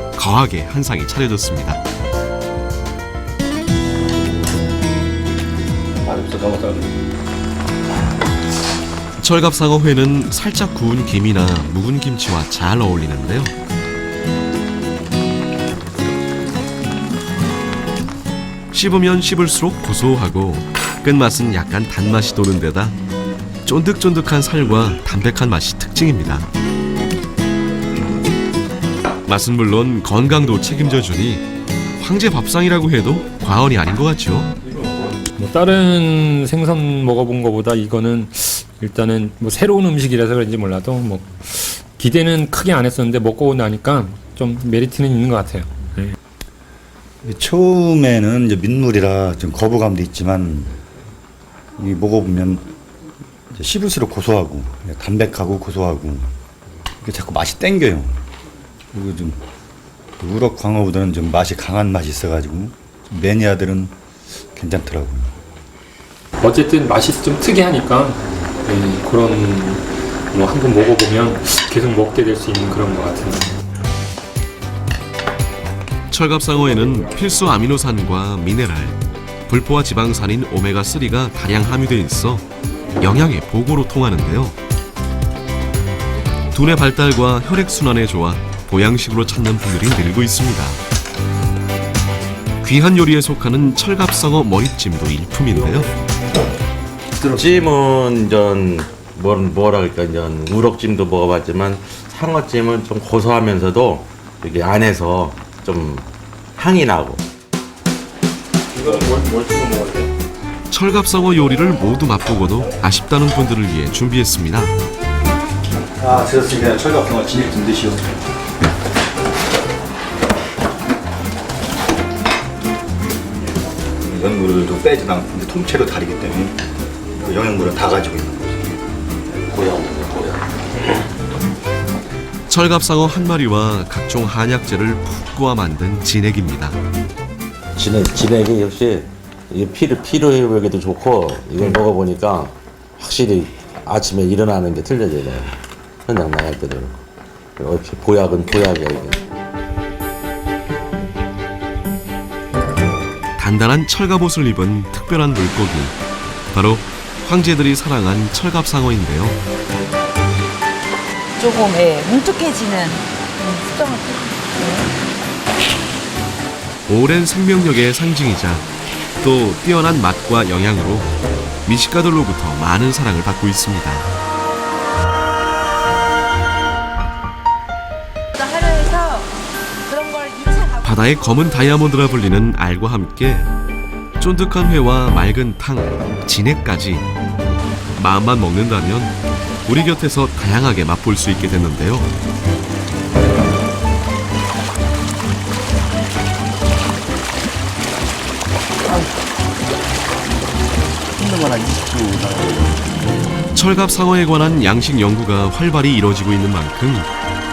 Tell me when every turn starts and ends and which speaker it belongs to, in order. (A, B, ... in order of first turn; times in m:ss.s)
0:00.2-0:01.8 A
0:06.0-0:07.1 B
0:09.2-0:13.5 A
0:18.7-0:22.9 A
0:23.6-0:26.4 A
0:29.2-0:31.4 A
0:32.0-0:34.5 A
0:34.8-0:46.2 C
0:47.2-0:50.8 B
0:51.8-0:52.7 B
0:53.5-0:56.3 B
0:57.0-0:58.2 B
0:58.9-0:59.4 B
1:00.2-1:04.0 B
1:04.5-1:05.3 B
1:06.4-1:13.5 C
1:16.1-1:22.4 A
1:23.0-1:24.6 A
1:26.5-1:30.8 A
1:32.6-1:35.9 A
1:37.2-1:47.2 D
1:48.7-1:50.1 C
1:50.7-1:54.7 A
1:56.0-1:58.0 B
2:04.0-2:06.6 B
2:07.2-2:08.6 B
2:09.5-2:10.4 D
2:12.5-2:16.8 A
2:17.8-2:27.0 D
2:27.6-2:29.2 D
2:33.4-2:36.0 A
2:36.5-2:39.4 A
2:41.4-2:44.9 E
2:46.9-2:48.7 A
2:49.2-2:51.1 A
2:51.6-2:54.1 A
2:58.3-3:02.2 E
3:00.8-3:03.5 A
3:04.2-3:07.1 A
3:08.0-3:12.1 A
3:21.2-3:22.6 B
3:23.5-3:27.1 A